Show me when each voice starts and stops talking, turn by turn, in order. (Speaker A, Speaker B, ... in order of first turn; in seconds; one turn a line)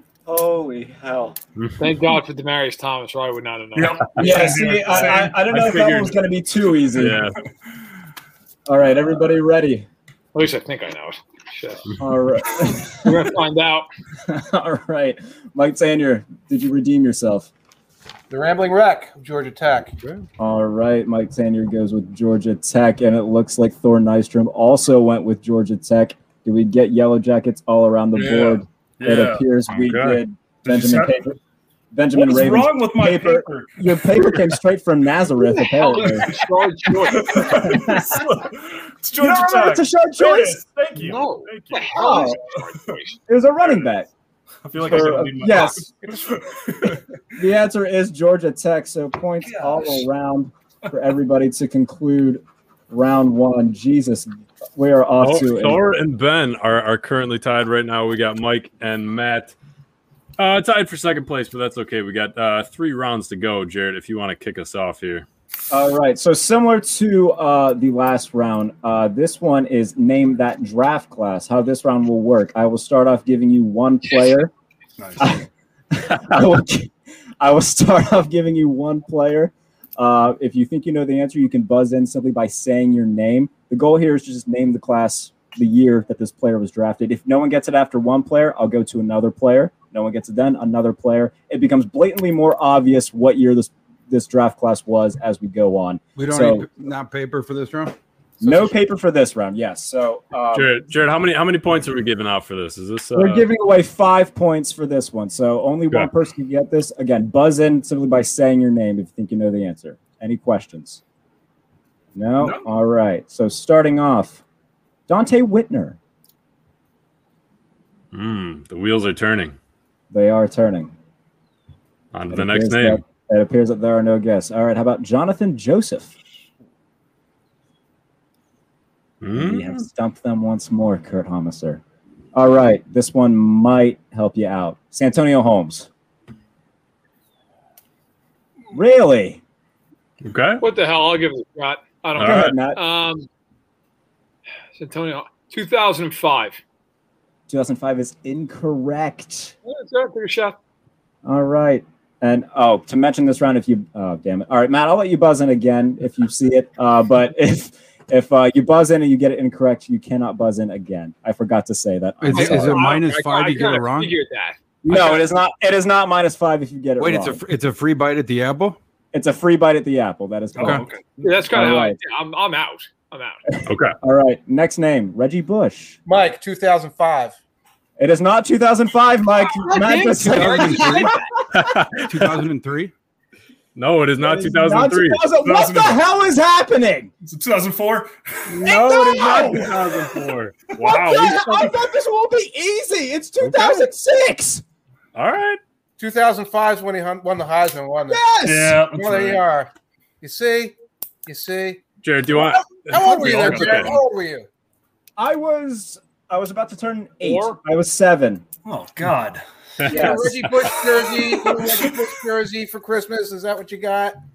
Speaker A: 0.3-1.4
Speaker B: 1.8-4.5
Speaker C: 3.8-5.5
Speaker A: 4.2-7.2
Speaker D: 5.5-6.2
Speaker D: 7.0-7.4
Speaker A: 8.7-9.9
Speaker B: 10.3-11.9
Speaker A: 12.0-13.3
Speaker B: 13.0-13.9
Speaker A: 14.3-17.5
Speaker E: 18.3-19.9
Speaker A: 20.4-31.4
Speaker C: 28.1-29.4
Speaker D: 29.7-30.2
Speaker C: 30.6-31.1
Speaker A: 31.9-36.3
Speaker C: 32.1-33.8
Speaker B: 35.4-37.7
Speaker C: 36.1-41.9
Speaker A: 37.3-38.3
Speaker A: 39.2-40.7
Speaker B: 41.0-43.2
Speaker A: 41.9-42.4
Speaker A: 43.3-44.1
Speaker C: 44.7-47.0
Speaker D: 44.7-45.8
Speaker A: 44.8-45.9
Speaker A: 47.3-55.8
Speaker C: 49.5-50.0
Speaker D: 55.2-59.5
Speaker D: 60.4-65.3
Speaker A: 65.7-74.5
Speaker C: 75.0-75.3
Speaker A: 75.2-96.7
Speaker F: 96.2-98.0
Speaker A: 98.4-100.8
Speaker D: 100.5-103.5
Speaker A: 103.2-111.0
Speaker A: 112.2-114.4
Speaker A: 115.1-116.0
Speaker D: 118.1-119.6
Speaker A: 120.1-120.9
Speaker D: 122.1-123.0
Speaker A: 122.3-126.1
Speaker D: 129.2-129.8
Speaker A: 129.3-131.8
Speaker A: 132.3-135.9
Speaker A: 138.7-139.4
Speaker D: 140.2-140.6
Speaker B: 140.6-143.3
Speaker D: 142.2-142.6
Speaker A: 142.2-142.8
Speaker B: 144.8-146.6
Speaker A: 147.5-149.5
Speaker B: 149.7-150.6
Speaker A: 151.2-162.9
Speaker F: 162.2-164.1
Speaker B: 162.3-165.1
Speaker A: 164.8-167.4
Speaker F: 167.0-168.8
Speaker A: 169.1-170.8
Speaker C: 170.6-171.2
Speaker F: 170.6-170.8
Speaker B: 171.2-173.4
Speaker A: 171.5-172.0
Speaker A: 173.5-176.0
Speaker D: 173.7-174.0
Speaker E: 176.1-177.3
Speaker A: 178.0-181.7
Speaker B: 179.4-181.3
Speaker F: 180.1-181.1
Speaker D: 181.5-182.3
Speaker F: 182.0-182.9
Speaker D: 183.8-185.2
Speaker A: 184.2-187.1
Speaker C: 185.4-186.0
Speaker C: 187.2-188.6
Speaker D: 188.5-191.7
Speaker A: 188.6-189.8
Speaker A: 190.8-194.6
Speaker D: 193.4-193.9
Speaker D: 195.2-195.6
Speaker E: 196.0-198.3
Speaker A: 198.1-198.8
Speaker C: 198.4-199.4
Speaker E: 198.9-199.7
Speaker E: 200.2-200.8
Speaker E: 201.3-204.5
Speaker D: 202.0-204.0
Speaker C: 203.0-204.0
Speaker A: 205.2-208.4
Speaker B: 207.2-207.6
Speaker C: 208.7-209.8
Speaker D: 209.8-210.5
Speaker A: 209.9-210.4
Speaker E: 209.9-214.2
Speaker C: 211.5-211.8